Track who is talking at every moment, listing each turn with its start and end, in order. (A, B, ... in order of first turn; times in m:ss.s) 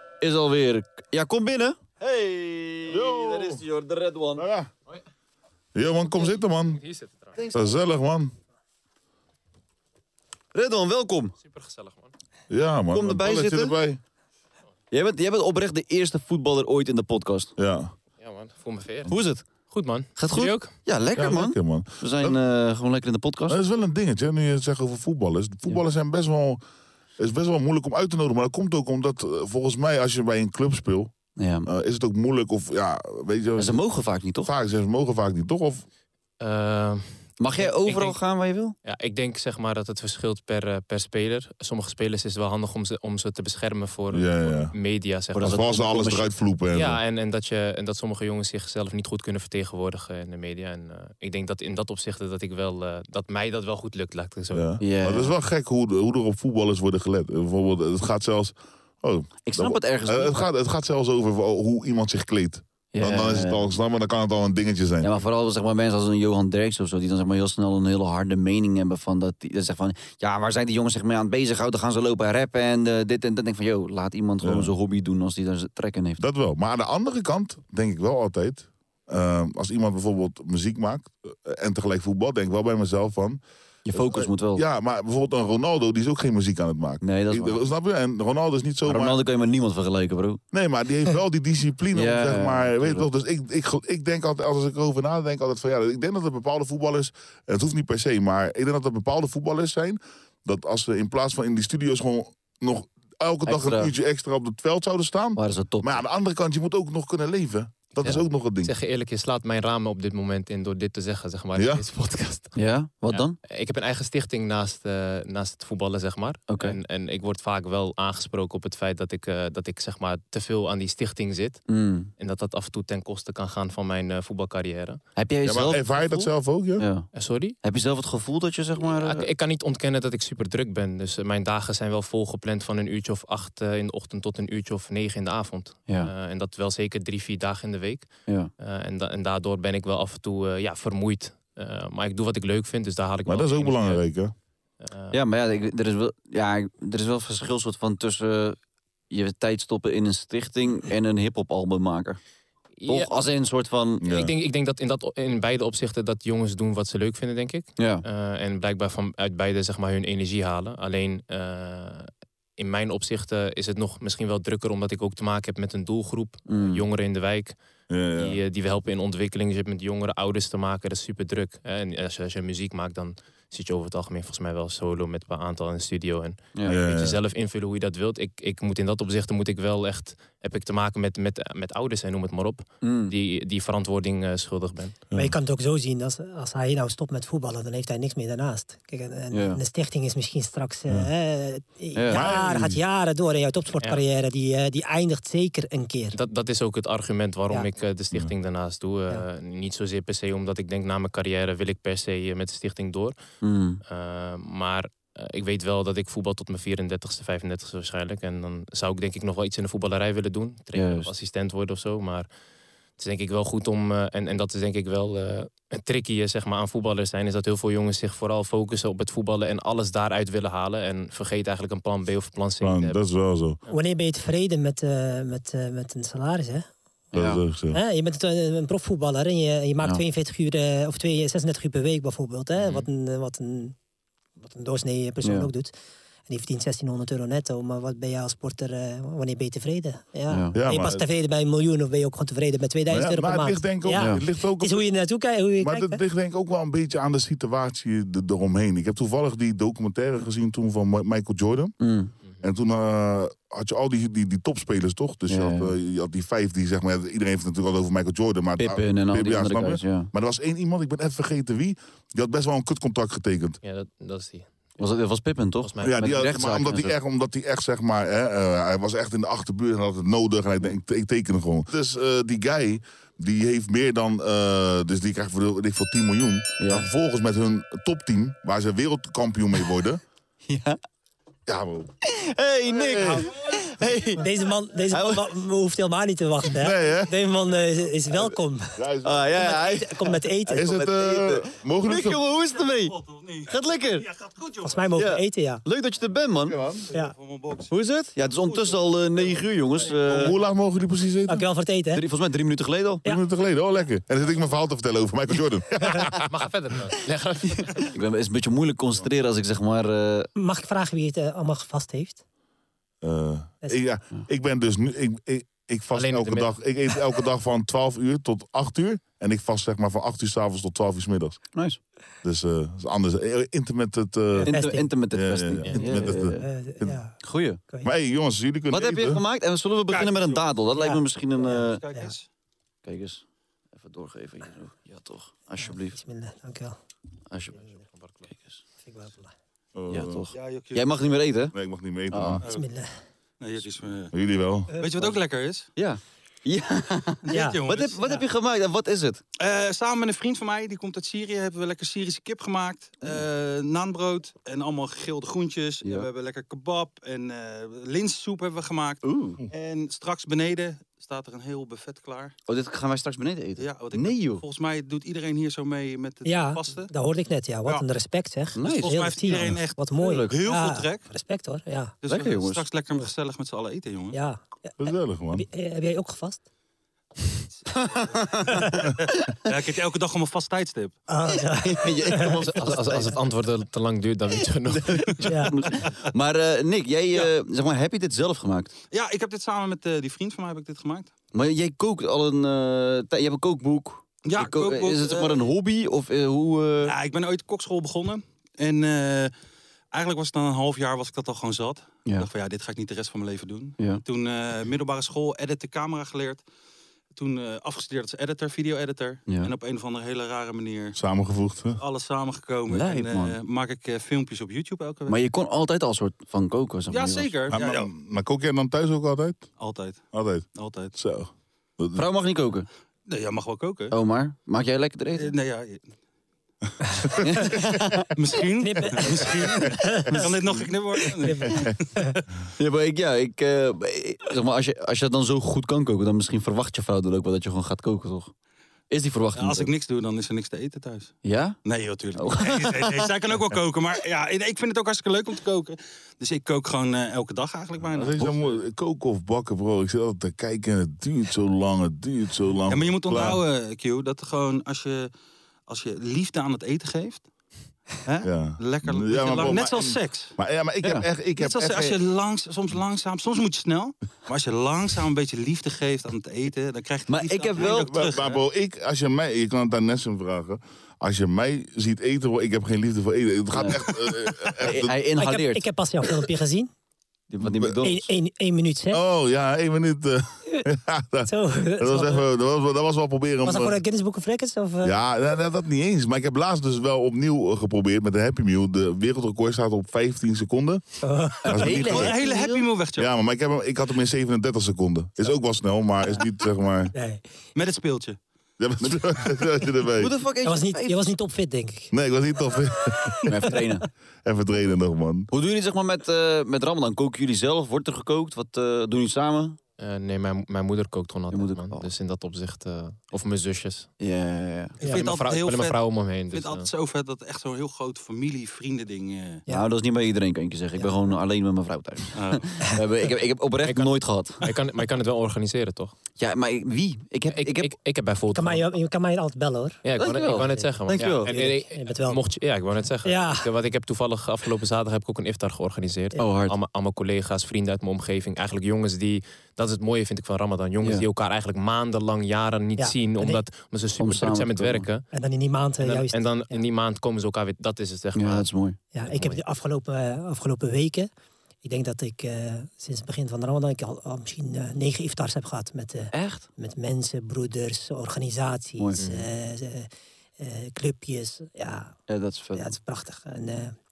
0:00.2-0:04.5 A
0:02.9-0:03.6 B
0:04.4-0:04.7 B
0:05.8-0:06.8 B
0:06.8-0:07.4 C
0:07.4-0:07.8 A
0:07.5-0:08.3 B
0:10.5-0:11.4 A
0:11.4-0:12.1 C
0:12.5-0:14.0 B
0:12.9-0:13.8 A
0:14.9-0:17.5 A
0:17.6-0:17.9 B
0:18.2-0:20.8 C
0:19.1-0:19.5 A
0:20.2-0:23.6 A
0:21.2-0:22.4 B
0:23.5-0:26.6 B
0:27.2-0:33.8 B
0:31.4-0:31.7 A
0:33.6-0:34.5 A
0:34.4-0:35.9 B
0:36.4-0:38.2 C
0:37.4-0:38.8 A
0:38.8-0:45.8 C
0:44.1-0:44.7 B
0:45.4-0:46.3 A
0:45.4-0:47.0 B
0:46.7-0:54.8 C
0:54.5-1:05.1 B
0:54.8-0:55.3 A
0:59.4-1:00.4 A
1:02.9-1:03.7 A
1:05.0-1:16.2 A
1:14.4-1:14.7 B
1:16.2-1:23.4 B
1:23.8-1:24.6 A
1:23.9-1:29.2 B
1:27.0-1:27.6 A
1:28.8-1:30.4 A
1:30.5-1:48.7 B
1:31.9-1:33.1 A
1:43.5-1:43.9 A
1:45.4-1:46.0 A
1:48.6-1:52.6 C
1:51.6-1:51.8 B
1:52.6-1:53.4 A
1:53.1-2:01.6 C
1:56.5-1:56.8 A
2:01.7-2:02.1 A
2:02.2-2:05.0 C
2:05.2-2:07.1 A
2:05.4-2:06.8 B
2:07.1-2:07.6 C
2:07.6-2:09.3 A
2:08.8-2:24.1 C
2:23.3-2:24.3 B
2:24.8-2:25.2 C
2:25.1-2:28.6 A
2:29.1-2:32.2 A
2:32.8-2:33.1 C
2:32.9-2:34.1 A
2:34.0-2:34.3 B
2:34.0-2:47.6 C
2:37.8-2:38.0 A
2:46.5-2:46.8 A
2:47.9-2:48.4 B
2:48.2-3:05.0 C
2:56.7-2:57.2 B
3:02.8-3:03.1 A
3:05.1-3:16.2 D
3:09.3-3:09.6 A
3:12.0-3:12.7 A
3:12.1-3:12.8 B
3:16.1-3:23.2 C
3:23.4-3:23.8 A
3:23.9-3:32.3 C
3:30.8-3:31.1 A
3:33.0-3:43.0 C
3:42.6-3:43.6 B
3:43.7-3:46.7 D
3:47.1-3:47.8 B
3:47.2-3:47.4 A
3:47.7-3:53.8 D
3:52.6-3:52.9 C
3:54.4-3:55.7 D
3:55.2-3:55.5 A
3:56.3-4:06.0 D
4:00.3-4:00.6 A
4:00.5-4:01.0 B
4:02.9-4:04.8 B
4:03.9-4:04.2 A
4:05.6-4:11.8 B
4:11.8-4:12.1 A
4:12.4-4:23.6 B
4:15.3-4:15.7 A
4:18.6-4:20.1 A
4:23.6-4:24.6 C
4:24.8-4:26.9 A
4:25.6-4:26.1 C
4:25.8-4:40.0 B
4:36.6-4:36.9 A
4:40.5-4:40.8 A
4:41.5-4:41.9 B
4:42.0-4:44.2 A
4:42.7-4:43.3 B
4:44.2-4:48.8 D
4:44.9-4:45.3 A
4:46.6-4:47.2 B
4:48.1-4:49.4 B
4:49.0-4:54.1 A
4:49.3-4:50.7 D
4:50.6-4:52.2 B
4:52.3-4:54.9 E
4:54.6-4:55.6 D
4:55.0-4:56.6 A
4:56.5-4:56.9 B
4:56.9-5:00.4 E
4:57.7-5:00.4 A
5:00.1-5:01.4 B
5:01.3-5:02.0 D
5:01.9-5:03.1 A
5:03.1-5:06.2 B
5:06.1-5:07.9 C
5:07.4-5:10.3 A
5:10.4-5:12.2 D
5:13.0-5:21.4 B
5:15.9-5:16.5 C
5:21.5-5:21.8 A
5:22.2-5:27.0 B
5:24.3-5:24.9 D
5:24.4-5:26.4 A
5:26.1-5:27.9 D
5:27.2-5:27.6 A
5:27.8-5:29.2 B
5:28.7-5:31.8 A
5:29.9-5:30.5 E
5:30.8-5:32.1 D
5:31.4-5:32.3 E
5:32.8-5:36.0 A
5:35.6-5:36.8 D
5:37.3-5:37.7 A
5:37.6-5:38.3 C
5:38.3-5:38.6 A
5:38.8-5:39.3 D
5:39.8-5:40.2 B
5:39.9-5:41.6 A
5:40.3-5:41.2 E
5:41.5-5:42.4 B
5:42.1-5:42.4 A
5:42.4-5:42.7 E
5:42.4-5:42.9 D
5:43.4-5:44.1 E
5:44.1-5:44.7 B
5:44.7-5:45.7 E
5:45.8-5:49.2 A
5:47.2-5:48.0 E
5:47.3-5:48.2 D
5:49.4-6:02.3 E
5:55.8-5:56.1 A
5:59.0-5:59.4 A
6:02.5-6:04.4 A
6:03.6-6:06.9 E
6:06.2-6:11.9 D
6:08.6-6:09.1 A
6:08.6-6:11.1 E
6:10.0-6:10.4 A
6:12.0-6:14.2 E
6:12.1-6:12.7 A
6:14.1-6:14.8 D
6:14.8-6:15.4 B
6:15.3-6:16.4 D
6:17.7-6:19.5 A
6:17.9-6:21.0 E
6:18.5-6:18.8 D
6:21.1-6:22.4 D
6:21.5-6:23.2 A
6:22.5-6:25.4 C
6:24.7-6:28.7 A
6:25.1-6:25.9 E
6:25.2-6:25.5 D
6:28.9-6:31.1 E
6:31.3-6:37.0 A
6:34.2-6:35.5 E
6:36.8-6:39.3 E
6:39.9-6:46.4 E
6:47.2-6:51.0 E
6:49.3-6:49.5 A
6:51.0-6:51.8 B
6:51.8-6:55.2 E
6:52.7-6:53.4 A
6:55.1-6:57.3 A
6:56.9-6:57.9 E
6:57.5-6:59.5 B
6:59.6-7:01.0 E
7:00.1-7:02.0 B
7:01.9-7:02.7 A
7:03.1-7:04.0 E
7:03.9-7:05.3 A
7:05.2-7:05.9 E
7:06.9-7:07.6 B
7:07.2-7:08.1 A
7:08.2-7:12.2 E
7:08.6-7:10.3 D
7:11.2-7:12.1 D
7:12.6-7:18.3 A
7:18.9-7:19.7 A
7:19.4-7:28.5 E
7:21.2-7:21.6 A
7:22.2-7:23.1 A
7:27.9-7:33.4 B
7:32.7-7:35.1 E
7:35.7-7:37.3 E
7:38.0-7:40.4 E
7:38.2-7:42.0 B
7:40.8-7:41.1 A
7:41.4-7:48.4 E
7:47.1-7:48.0 A
7:47.6-7:55.0 B
7:53.6-7:53.8 A
7:54.6-7:55.7 A
7:55.2-7:56.7 D
7:57.3-7:58.1 A
7:57.4-7:57.8 B
7:57.8-7:59.0 D
7:58.9-8:03.8 B
8:01.3-8:02.2 D
8:03.4-8:05.0 D
8:04.8-8:10.8 B
8:11.0-8:11.8 D
8:11.4-8:12.2 B
8:11.6-8:12.6 A
8:11.8-8:13.1 E
8:13.0-8:16.9 B
8:16.9-8:17.2 D
8:17.6-8:18.2 E
8:18.6-8:20.1 B
8:19.9-8:21.1 A
8:20.4-8:21.9 D
8:21.9-8:23.4 B
8:22.7-8:23.2 D
8:23.3-8:23.9 A
8:24.2-8:25.3 B
8:25.3-8:29.6 A
8:29.8-8:33.9 C
8:31.3-8:31.9 A
8:34.0-8:34.8 A
8:34.8-8:35.8 E
8:34.9-8:36.7 C
8:36.3-8:39.4 E
8:39.5-8:44.5 A
8:42.1-8:42.5 E
8:43.6-8:45.9 C
8:46.2-8:47.7 A
8:47.3-8:48.6 C
8:48.4-8:52.2 D
8:49.8-9:05.1 C
8:50.0-8:51.3 A
8:53.0-8:53.5 D
8:56.2-8:56.6 A
9:02.8-9:03.4 D
9:04.0-9:04.9 A
9:05.1-9:06.6 D
9:05.8-9:08.5 C
9:08.2-9:08.8 A
9:08.9-9:11.1 D
9:09.0-9:09.4 C
9:11.6-9:22.0 D
9:16.1-9:16.5 A
9:18.8-9:19.1 A
9:19.0-9:19.3 C
9:22.1-9:22.7 A
9:22.5-9:23.8 D